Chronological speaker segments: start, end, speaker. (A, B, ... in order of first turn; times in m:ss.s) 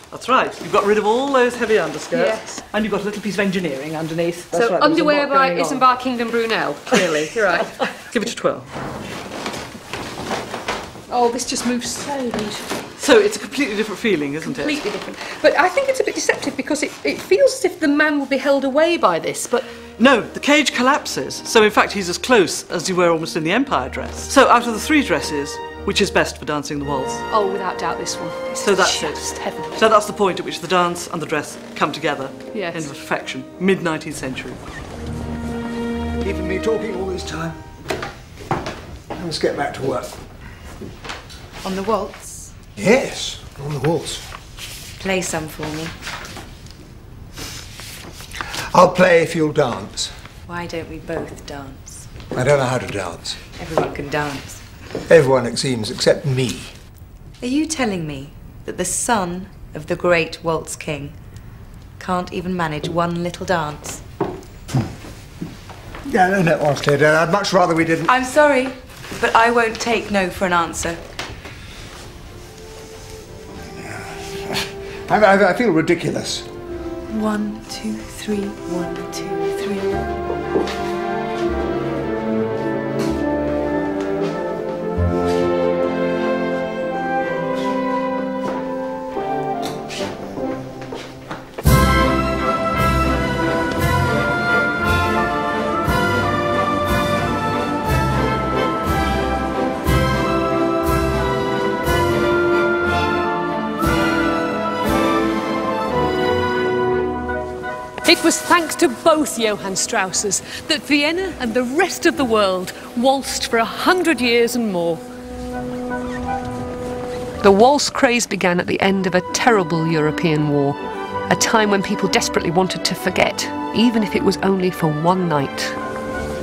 0:00.1-0:05.8 A
0:02.1-0:02.6 B
0:04.5-0:07.9 B
0:08.0-0:08.7 A
0:11.1-0:12.8 B
0:13.0-0:14.8 A
0:14.4-0:19.7 B
0:20.0-0:27.2 A
0:27.3-0:29.9 B
0:28.6-0:34.6 A
0:32.5-0:32.9 B
0:36.2-0:37.6 C
0:39.1-0:40.2 C
0:41.6-0:42.5 D
0:42.8-0:44.2 C
0:45.0-0:45.9 D
0:48.7-0:50.1 C
0:50.5-0:52.1 D
0:52.3-0:53.4 C
0:53.6-0:54.6 D
0:55.1-0:56.7 C
0:57.4-1:01.2 D
1:02.0-1:04.0 D
1:06.1-1:08.1 C
1:08.1-1:11.0 D
1:13.9-1:16.5 C
1:17.1-1:20.0 D
1:48.0-1:55.0 B
1:57.4-2:05.8 B